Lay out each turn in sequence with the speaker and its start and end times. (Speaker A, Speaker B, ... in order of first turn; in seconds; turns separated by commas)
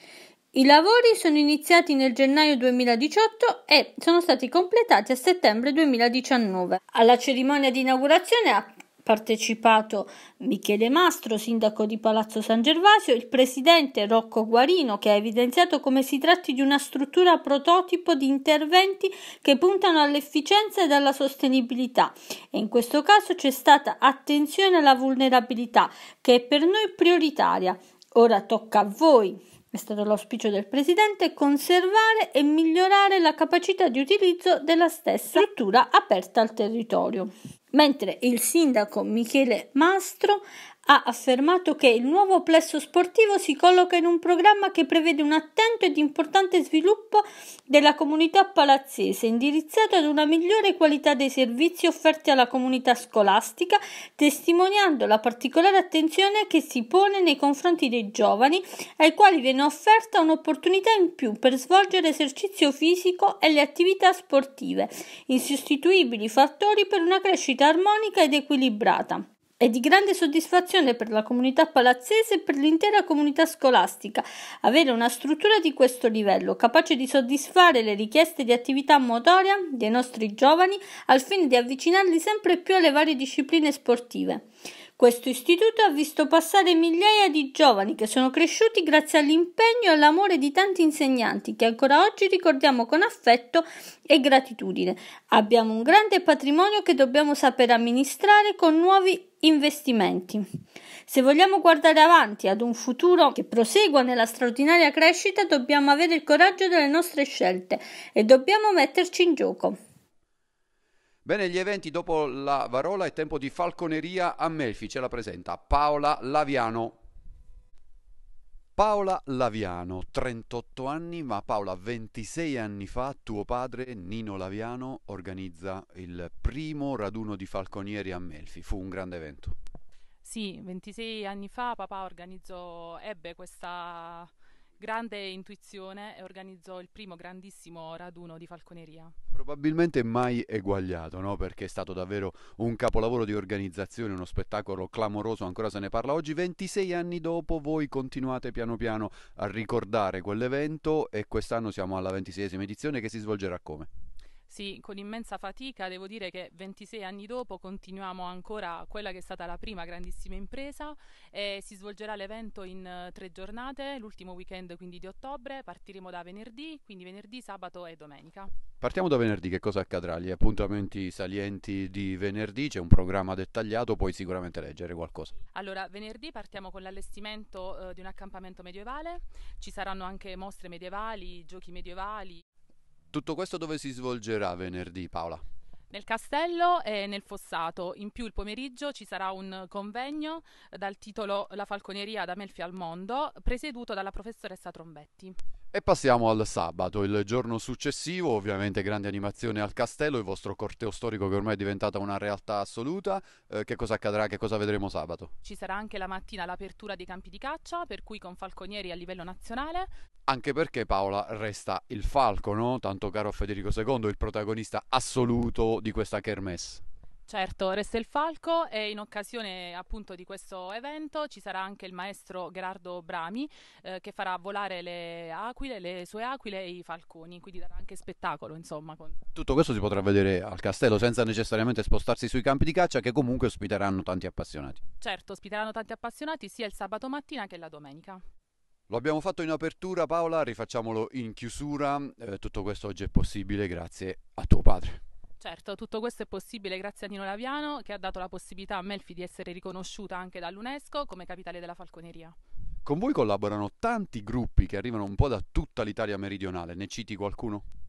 Speaker A: 0.5-84.4, Speaker A: 85.0-100.4, Speaker A: 101.0-109.8, Speaker B: 111.2-117.0, Speaker B: 118.8-129.6, Speaker C: 130.2-139.1, Speaker B: 139.3-153.9, Speaker C: 154.5-168.5, Speaker B: 168.8-175.3, Speaker C: 175.5-182.4, Speaker B: 183.1-185.4, Speaker C: 185.9-195.4, Speaker B: 195.7-205.3, Speaker C: 205.4-209.9, Speaker B: 210.3-216.8, Speaker C: 217.3-229.2, Speaker B: 229.3-234.8, Speaker C: 235.0-238.2, Speaker B: 238.9-245.0, Speaker C: 245.4-252.3, Speaker B: 252.8-257.6